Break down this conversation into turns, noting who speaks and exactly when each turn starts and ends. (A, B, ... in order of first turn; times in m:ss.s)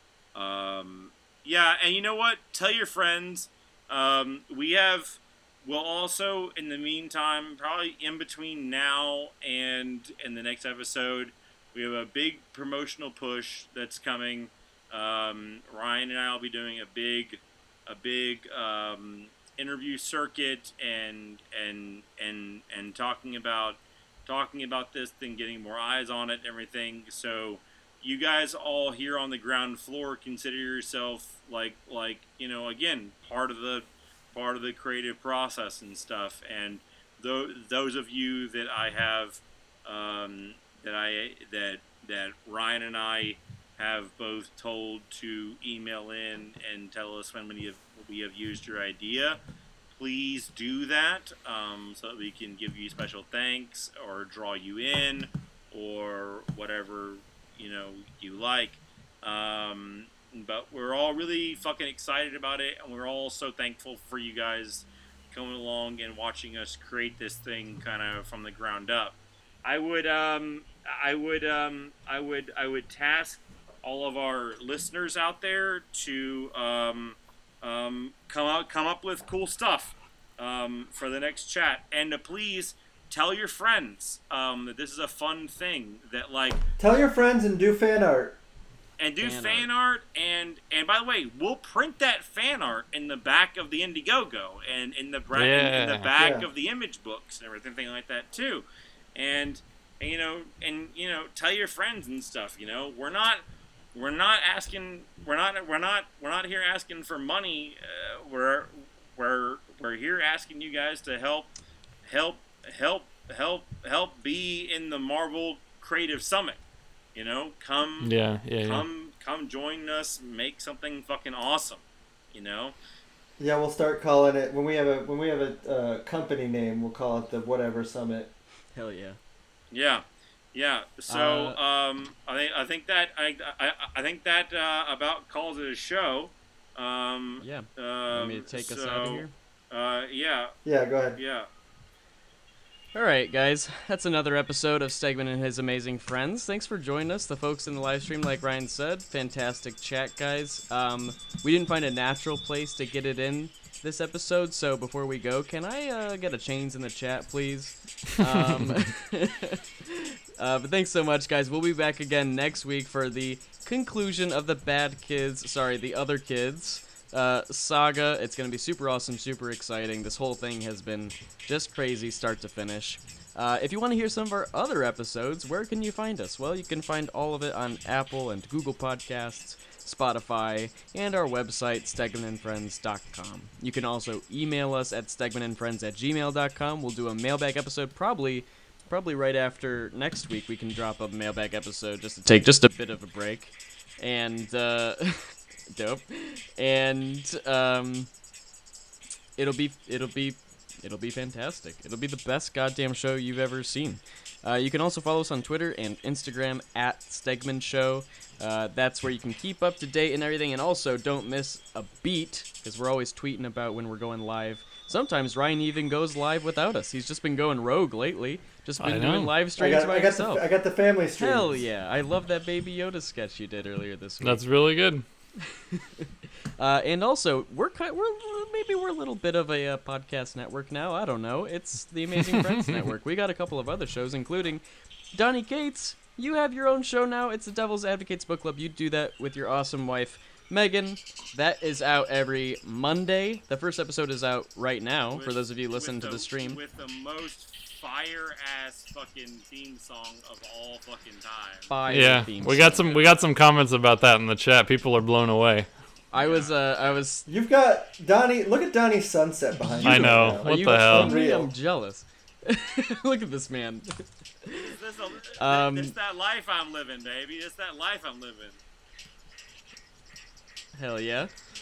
0:00.3-0:49.4 A
0:49.9-1:26.6 A
1:26.8-1:28.4 B
1:29.0-1:51.5 A
1:29.2-1:29.7 C
1:35.3-1:36.1 D
1:36.2-1:36.5 B
1:52.0-1:56.6 A
1:57.1-2:02.8 A
1:58.0-1:58.8 D
2:03.4-2:08.3 B
2:08.7-2:09.2 C
2:09.7-2:20.5 A
2:11.1-2:11.6 C
2:17.4-2:19.3 C
2:20.6-2:21.2 B
2:21.2-2:21.5 A
2:22.9-3:18.1 C
2:38.5-2:38.8 D
3:19.4-3:40.4 C
3:38.8-3:39.3 D
3:39.6-3:41.7 B
3:41.2-3:44.4 C
3:44.2-3:45.0 D
3:45.6-3:46.1 C
3:46.6-3:54.6 C
3:55.1-4:06.6 C
4:05.1-4:11.7 A
4:11.7-4:13.0 C
4:11.9-4:15.8 D
4:12.8-4:13.1 A
4:16.1-4:17.3 C
4:16.2-4:16.5 A
4:17.2-4:21.5 B
4:19.8-4:24.7 C
4:19.8-4:21.2 D
4:24.6-4:28.6 A
4:25.4-4:25.9 C
4:30.7-4:31.3 C